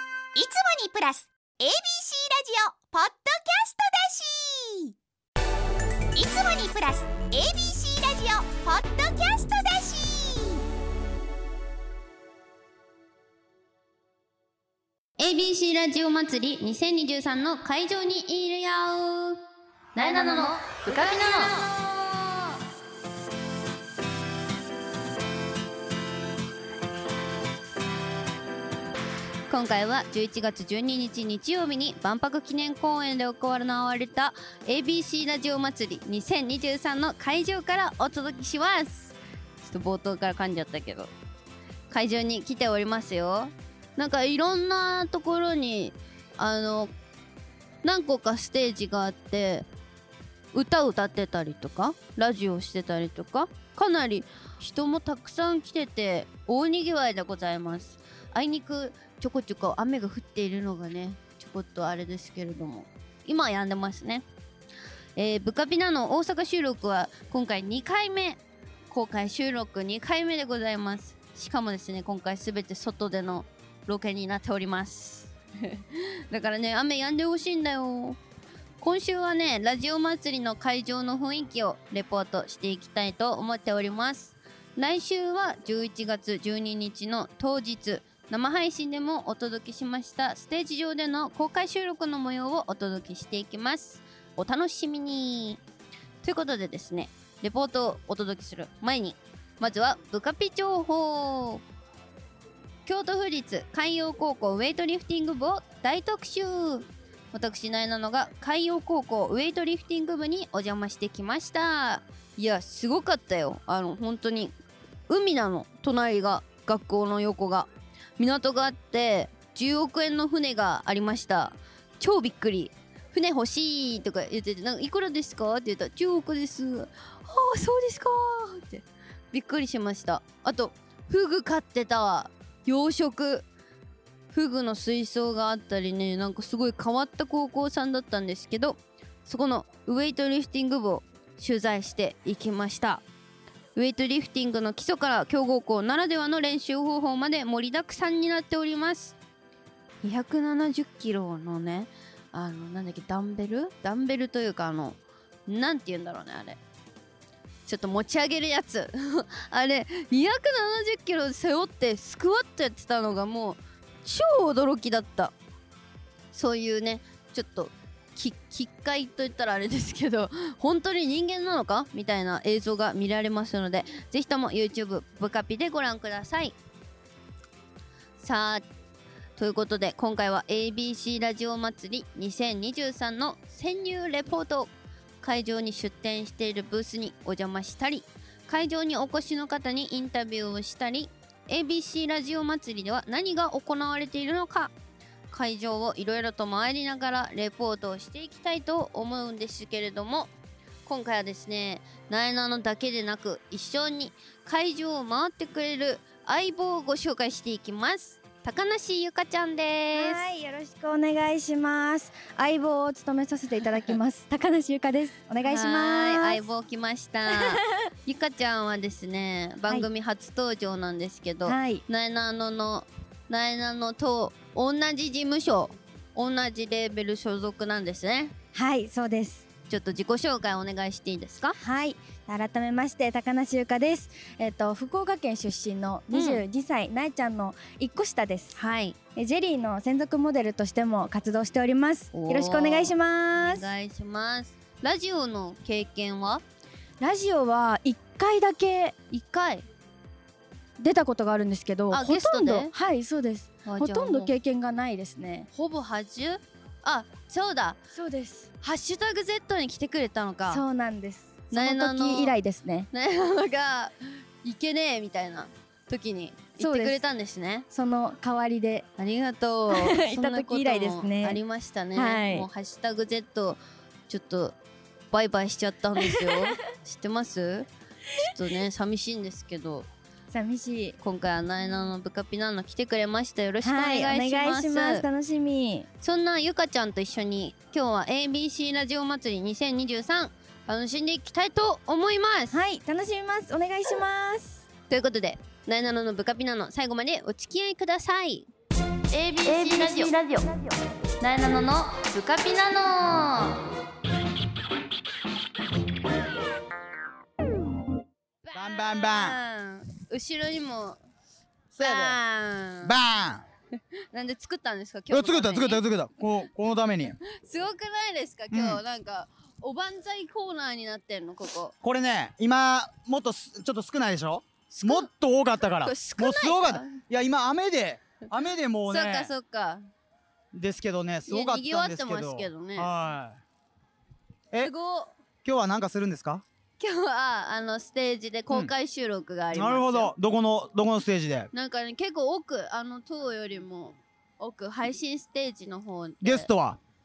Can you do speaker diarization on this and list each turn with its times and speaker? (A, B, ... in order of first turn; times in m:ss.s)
0:00.3-0:04.9 A
0:06.1-0:10.6 A
0:15.2-0:19.4 B
0:19.9-0:22.5 B
0:20.0-0:20.5 C
0:29.5-0:41.1 B
0:41.9-0:46.9 B
0:47.8-0:49.6 B
0:50.5-1:04.2 B
1:05.2-1:18.2 B
1:18.8-1:35.6 B
1:36.2-1:41.6 B
1:42.8-1:54.5 B
1:55.1-2:13.4 B
2:14.3-2:23.0 B
2:23.7-2:29.2 B
2:30.0-2:36.6 B
2:37.6-2:45.3 B
2:46.3-2:56.5 B
2:58.2-2:58.6 B
2:59.4-3:04.7 B
3:05.2-3:14.7 B
3:15.3-3:20.3 B
3:20.8-3:30.2 B
3:29.9-3:36.4 C
3:35.4-3:48.3 B
3:37.3-3:37.6 C
3:41.4-3:41.8 C
3:48.5-3:49.4 C
3:49.7-3:51.6 B
3:51.6-3:58.6 C
3:56.1-3:56.4 B
3:58.6-3:59.0 B
3:59.1-4:03.7 C
4:02.1-4:06.4 B
4:07.0-4:09.0 C
4:09.1-4:09.6 B
4:10.8-4:15.5 C
4:11.9-4:12.7 B
4:13.6-4:14.3 B
4:15.5-4:17.8 B
4:17.9-4:18.5 C
4:18.6-4:20.6 B
4:20.5-4:22.9 C
4:21.5-4:22.4 B
4:22.9-4:27.7 B
4:26.6-4:27.0 C
4:27.7-4:28.8 C
4:29.0-4:34.5 B
4:29.7-4:31.4 C
4:31.9-4:32.5 C
4:35.1-4:39.9 B
4:36.0-4:36.5 C
4:40.3-4:41.0 C
4:41.0-4:45.0 B
4:43.6-4:45.9 C
4:46.0-4:52.6 B
4:52.5-4:54.6 C
4:54.9-4:58.5 B
4:59.1-5:00.5 B
4:59.4-5:00.8 C
5:01.2-5:03.7 B
5:08.4-5:11.0 B
5:08.5-5:09.4 D
5:11.7-5:12.2 D
5:11.8-5:13.0 B
5:12.8-5:13.4 D
5:14.1-5:15.8 B
5:15.1-5:17.2 D
5:17.2-5:21.7 B
5:18.5-5:18.8 D
5:21.8-5:29.3 D
5:24.7-5:25.1 B
5:25.8-5:27.0 B
5:28.9-5:29.8 B
5:30.5-5:33.4 D
5:31.3-5:32.9 B
5:34.6-5:35.1 B
5:35.4-5:36.4 D
5:36.8-5:40.1 B
5:39.5-5:41.5 D
5:41.5-5:46.5 B
5:46.2-5:46.8 D